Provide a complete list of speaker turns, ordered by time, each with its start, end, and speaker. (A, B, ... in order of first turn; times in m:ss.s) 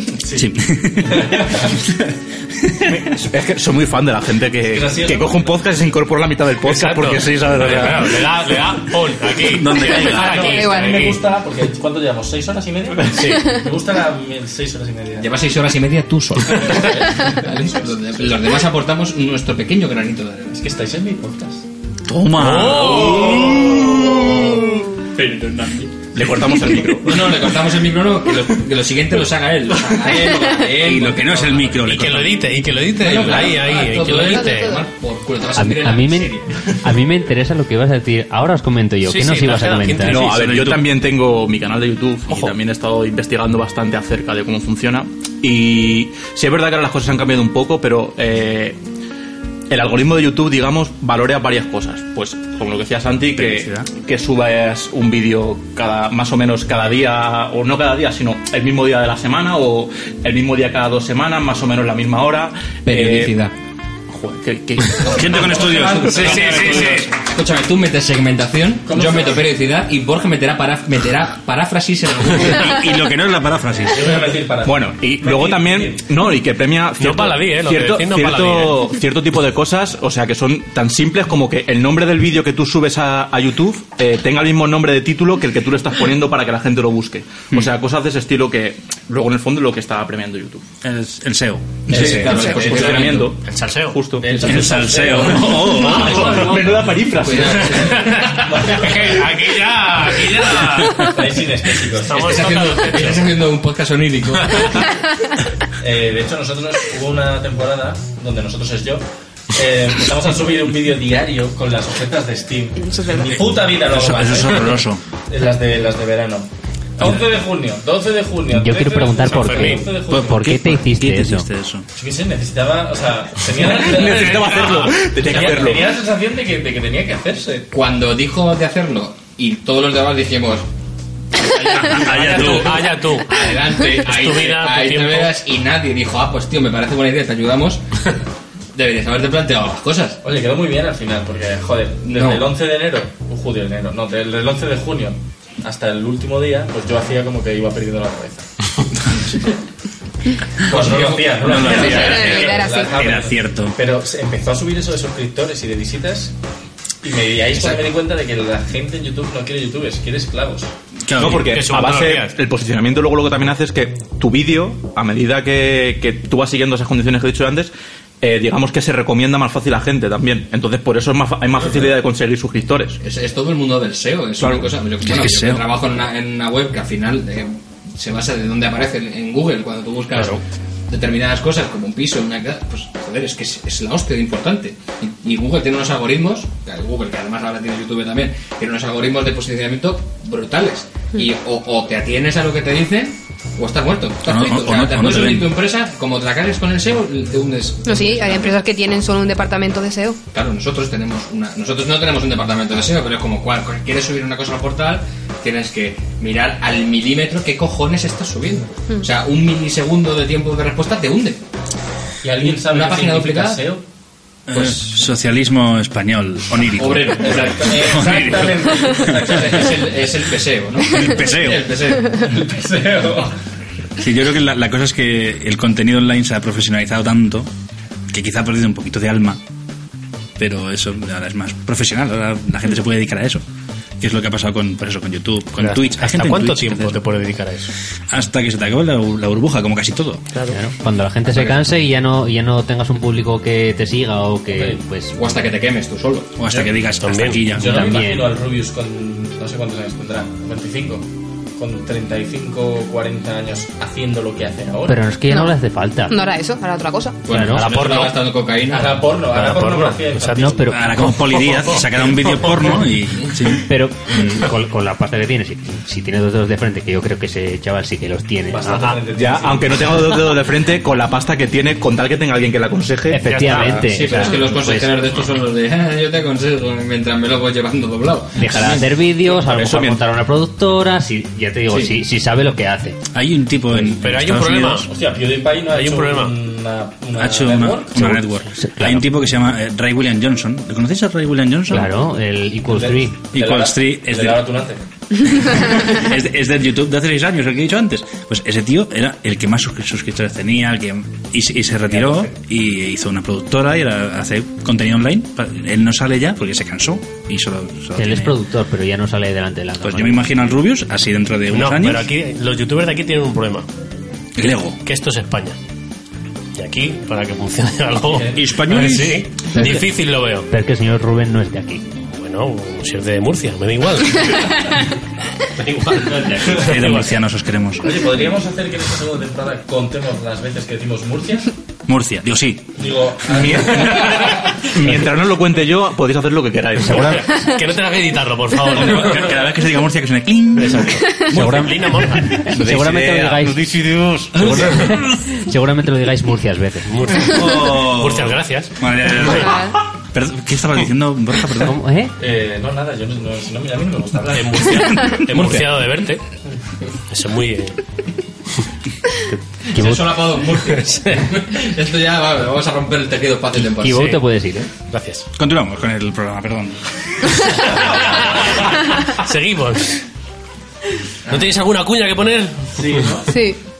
0:00.2-0:01.8 A
0:00.3-0:03.0 B
0:03.0-0:08.2 C
0:04.6-0:05.5 A
0:06.6-0:11.2 D
0:07.5-0:08.0 B
0:09.4-0:10.5 B
0:10.0-0:15.3 A
0:10.4-0:11.2 E
0:13.1-0:13.5 D
0:15.2-0:20.6 F
0:16.5-0:18.6 A
0:20.5-0:21.6 A
0:22.1-0:24.8 B
0:22.4-0:23.8 D
0:26.1-0:27.3 C
0:27.0-0:32.0 F
0:30.8-0:32.4 B
0:31.8-0:34.8 D
0:33.0-0:36.6 F
0:34.1-0:34.9 E
0:35.6-0:40.3 G
0:39.0-0:40.3 D
0:40.0-0:48.8 C
0:40.1-0:40.8 B
0:49.7-1:03.4 C
0:53.4-0:53.9 B
1:02.9-1:03.5 F
1:04.4-1:05.0 C
1:04.9-1:07.1 B
1:05.0-1:12.9 F
1:05.2-1:07.0 A
1:06.2-1:07.0 D
1:08.9-1:09.4 A
1:12.5-1:14.2 B
1:13.9-1:16.1 A
1:14.6-1:30.6 C
1:17.0-1:18.9 D
1:30.8-1:32.6 B
1:31.9-1:33.3 A
1:31.9-1:33.3 F
1:32.0-1:34.6 C
1:33.4-1:34.5 D
1:34.2-1:37.1 A
1:34.4-1:36.5 B
1:35.2-1:36.4 D
1:35.9-1:37.9 C
1:37.1-1:38.5 F
1:37.7-1:41.2 D
1:38.2-1:39.3 A
1:40.1-1:42.5 A
1:42.0-1:43.3 D
1:42.2-1:44.8 F
1:45.8-2:00.5 A
1:52.8-1:53.5 E
1:53.8-1:55.0 B
1:58.5-2:01.5 G
1:59.3-1:59.8 D
2:00.1-2:01.9 B
2:02.0-2:07.7 A
2:03.7-2:05.9 C
2:04.3-2:04.9 D
2:07.7-2:10.7 F
2:11.4-2:17.8 F
2:11.8-2:12.8 B
2:12.1-2:13.4 D
2:13.9-2:15.4 D
2:18.7-2:20.2 F
2:20.2-2:28.5 A
2:22.0-2:22.4 F
2:30.6-2:36.3 A
2:30.7-2:32.1 F
2:31.4-2:33.8 B
2:31.6-2:33.0 E
2:37.0-2:40.7 A
2:41.0-2:41.5 B
2:41.2-2:53.0 C
2:41.2-2:42.3 D
2:53.0-3:18.6 F
2:55.0-2:55.7 B
3:14.2-3:15.5 B
3:17.8-3:20.2 E
3:20.3-3:31.4 F
3:32.2-3:33.8 A
3:32.4-3:33.6 F
3:34.5-3:39.2 B
3:36.7-3:38.0 F
3:37.2-3:40.0 A
3:39.2-3:42.2 F
3:40.9-3:41.7 B
3:42.2-3:43.4 A
3:44.0-3:47.5 B
3:48.1-3:49.4 B
3:50.4-3:53.4 B
3:54.0-3:57.0 B
3:55.6-3:57.7 D
3:58.1-4:00.2 B
4:00.5-4:05.4 G
4:01.3-4:01.6 F
4:04.5-4:04.8 A
4:05.1-4:06.4 F
4:06.4-4:08.0 B
4:07.0-4:07.4 D
4:07.5-4:11.0 A
4:07.6-4:08.3 G
4:11.6-4:15.0 A
4:14.9-4:16.2 G
4:15.3-4:15.6 E
4:16.1-4:17.2 E
4:17.2-4:19.0 F
4:17.3-4:17.7 G
4:17.5-4:18.2 D
4:18.7-4:20.8 A
4:19.3-4:22.5 D
4:20.4-4:21.0 G
4:20.7-4:23.7 B
4:23.6-4:29.0 G
4:28.5-4:30.0 A
4:29.1-4:33.3 C
4:33.1-4:35.0 G
4:33.2-4:33.8 D
4:33.5-4:38.9 F
4:38.4-4:43.0 G
4:39.4-4:40.0 C
4:41.7-4:42.0 F
4:43.1-4:44.9 B
4:44.0-4:44.9 D
4:44.9-4:48.2 A
4:45.7-4:46.4 D
4:47.2-4:51.9 B
4:48.6-4:49.1 G
4:51.7-4:53.2 G
4:52.7-4:54.8 A
4:53.3-4:54.4 B
4:55.3-5:08.3 B
5:08.0-5:10.4 G
5:09.8-5:12.1 B
5:11.5-5:13.7 D
5:14.4-5:14.8 B
5:14.8-5:15.6 D
5:16.6-5:20.5 D
5:18.1-5:18.4 A
5:18.3-5:19.3 B
5:20.5-5:21.9 G
5:22.1-5:24.6 D
5:25.6-5:27.1 D
5:26.4-5:28.0 B
5:27.8-5:31.5 A
5:31.9-5:32.7 B
5:32.8-5:34.4 A
5:33.3-5:37.2 C
5:36.9-5:39.4 D
5:38.7-5:41.7 B
5:40.6-5:42.5 D
5:41.3-5:43.6 G
5:42.5-5:45.0 B
5:42.7-5:43.5 C
5:44.4-5:44.9 D
5:44.4-5:47.3 G
5:46.9-5:49.5 D
5:47.3-5:51.7 B
5:49.4-5:49.8 E
5:51.6-5:52.1 G
5:52.2-5:54.9 A
5:54.3-5:56.2 D
5:55.0-5:55.6 B
5:57.1-5:57.8 D
5:59.3-6:00.2 G
5:59.7-6:04.2 F
6:03.8-6:04.7 G
6:04.9-6:05.2 D
6:05.4-6:07.6 B
6:07.5-6:10.0 D
6:11.3-6:13.1 D
6:12.8-6:13.3 A
6:13.3-6:13.6 E